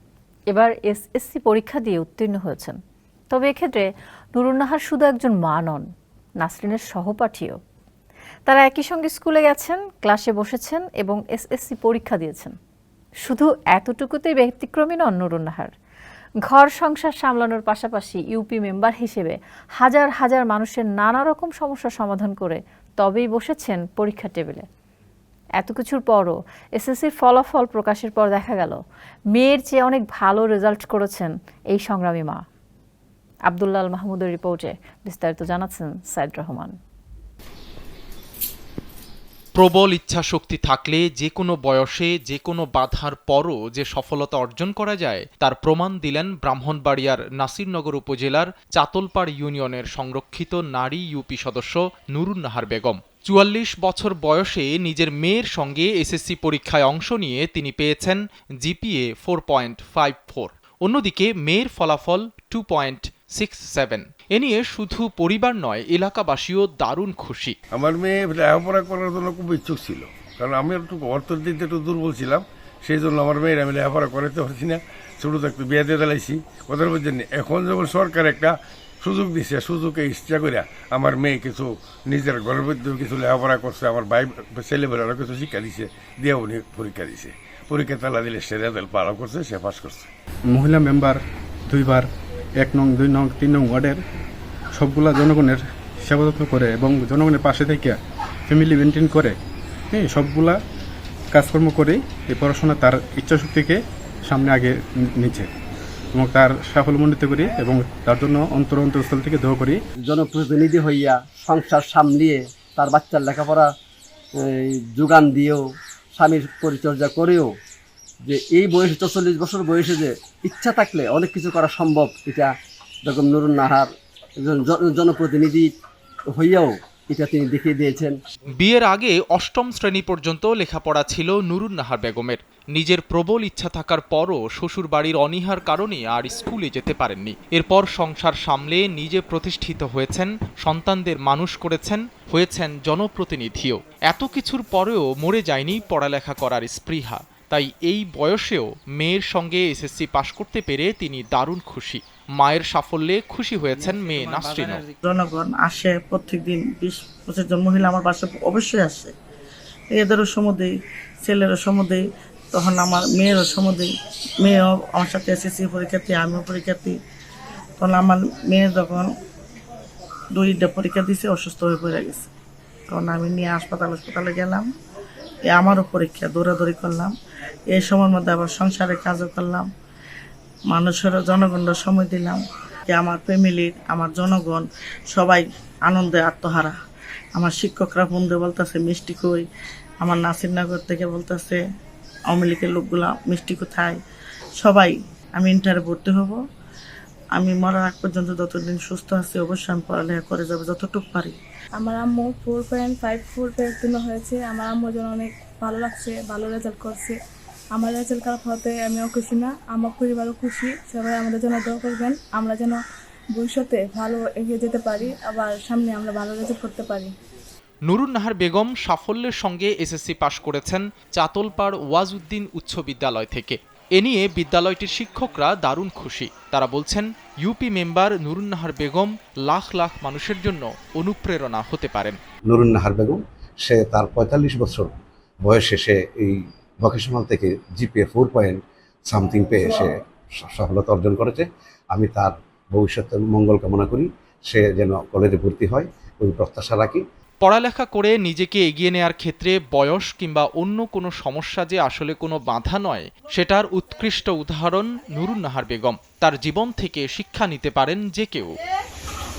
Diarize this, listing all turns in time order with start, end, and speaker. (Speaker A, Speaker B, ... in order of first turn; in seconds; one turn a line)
Speaker A: 0.5-2.8
Speaker A: 3.3-5.9
Speaker A: 6.4-7.6
Speaker A: 8.5-12.5
Speaker A: 13.3-15.7
Speaker A: 16.5-24.7
Speaker A: 25.6-28.8
Speaker A: 29.3-32.5
Speaker A: 33.5-36.8
Speaker B: 39.5-67.5
Speaker C: 67.7-90.1
Speaker D: 90.5-92.1
Speaker D: 92.6-94.0
Speaker D: 94.8-98.0
Speaker D: 98.5-99.3
Speaker D: 99.9-100.6
Speaker D: 101.3-105.5
Speaker D: 106.1-109.8
Speaker E: 110.0-113.7
Speaker E: 114.4-117.5
Speaker E: 118.2-122.5
Speaker E: 123.0-125.7
Speaker E: 126.3-128.2
Speaker B: 128.5-154.9
Speaker F: 155.0-159.1
Speaker F: 159.9-167.0
Speaker F: 167.8-169.1
Speaker F: 170.3-172.3
Speaker F: 172.9-174.7
Speaker F: 175.5-177.1
Speaker F: 177.7-179.7
Speaker F: 180.7-186.8
Speaker F: 187.3-189.5
Speaker F: 190.0-191.6
Speaker F: 192.3-194.0
Speaker F: 194.6-196.4
Speaker F: 197.3-201.4
Speaker G: 201.8-207.2
Speaker G: 207.7-217.1
Speaker B: 217.9-232.2
Speaker H: 232.5-247.1
Speaker B: 247.4-258.5